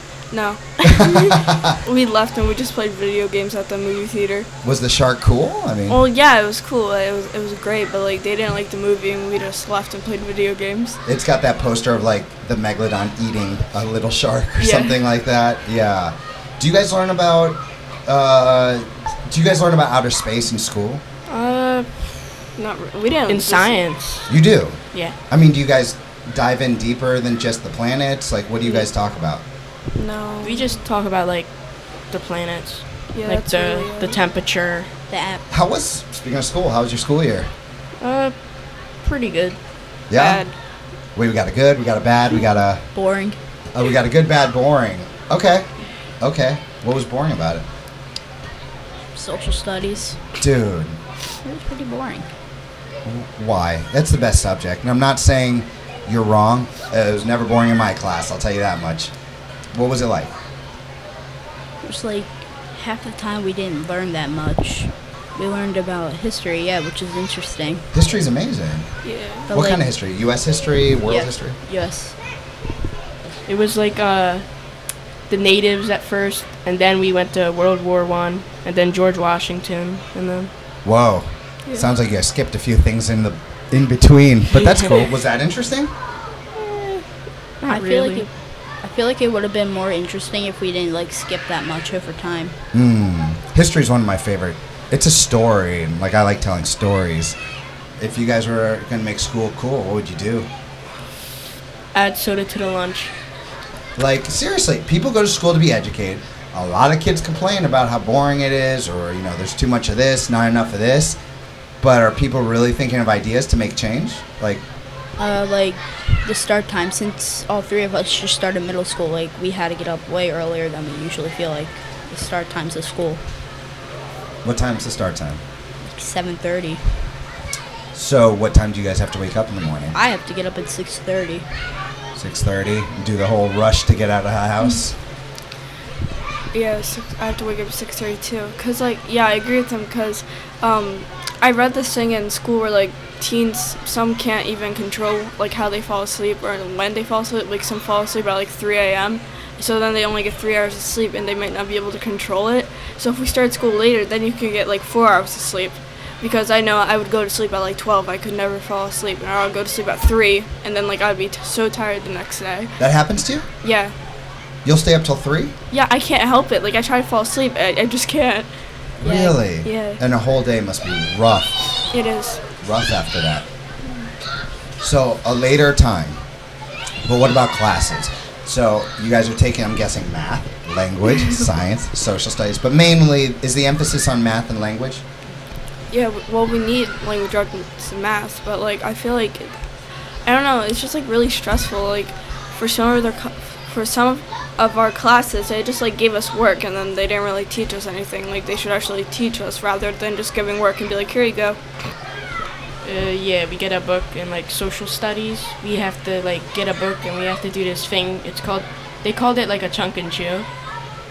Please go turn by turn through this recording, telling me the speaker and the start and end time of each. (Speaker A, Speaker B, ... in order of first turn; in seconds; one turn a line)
Speaker A: 0.3-4.5
Speaker B: 0.8-1.8
Speaker B: 4.6-6.0
Speaker A: 5.9-11.0
Speaker B: 11.1-21.0
Speaker A: 14.6-15.0
Speaker A: 21.3-21.9
Speaker A: 22.6-23.8
Speaker C: 23.3-24.3
Speaker B: 24.3-29.4
Speaker A: 29.9-30.8
Speaker C: 30.4-34.9
Speaker A: 33.1-34.2
Speaker D: 35.1-35.4
Speaker B: 35.5-37.5
Speaker C: 38.0-38.5
Speaker C: 39.0-39.6
Speaker B: 40.1-40.4
Speaker A: 40.1-40.5
Speaker B: 41.1-42.9
Speaker D: 42.9-43.4
Speaker B: 43.7-45.7
Speaker B: 46.2-47.6
Speaker D: 49.1-50.2
Speaker B: 50.4-51.0
Speaker D: 51.4-52.3
Speaker B: 53.0-59.1
Speaker B: 59.7-60.3
Speaker D: 61.8-67.9
Speaker B: 67.9-68.9
Speaker A: 69.0-69.5
Speaker D: 69.5-69.8
Speaker B: 69.5-71.6
Speaker D: 71.1-72.2
Speaker C: 73.5-74.5
Speaker C: 75.3-80.5
Speaker B: 80.8-85.9
Speaker C: 84.5-85.0
Speaker C: 87.6-88.3
Speaker D: 87.7-88.3
Speaker D: 88.8-92.5
Speaker B: 92.7-97.4
Speaker B: 98.0-100.5
Speaker C: 101.9-103.1
Speaker B: 104.0-111.2
Speaker B: 111.8-114.6
Speaker D: 115.2-123.2
Speaker B: 124.4-125.4
Speaker D: 125.8-126.9
Speaker B: 127.9-130.0
Speaker D: 129.9-131.5
Speaker B: 132.2-134.9
Speaker A: 136.5-162.8
Speaker B: 162.8-163.5
Speaker A: 163.6-163.9
Speaker B: 164.7-165.5
Speaker A: 165.7-168.5
Speaker B: 169.0-171.6
Speaker D: 169.1-169.3
Speaker A: 169.6-170.0
Speaker A: 171.9-172.4
Speaker B: 172.6-173.5
Speaker B: 174.8-176.2
Speaker B: 177.0-185.0
Speaker A: 185.9-189.5
Speaker A: 190.2-201.6
Speaker C: 202.8-210.5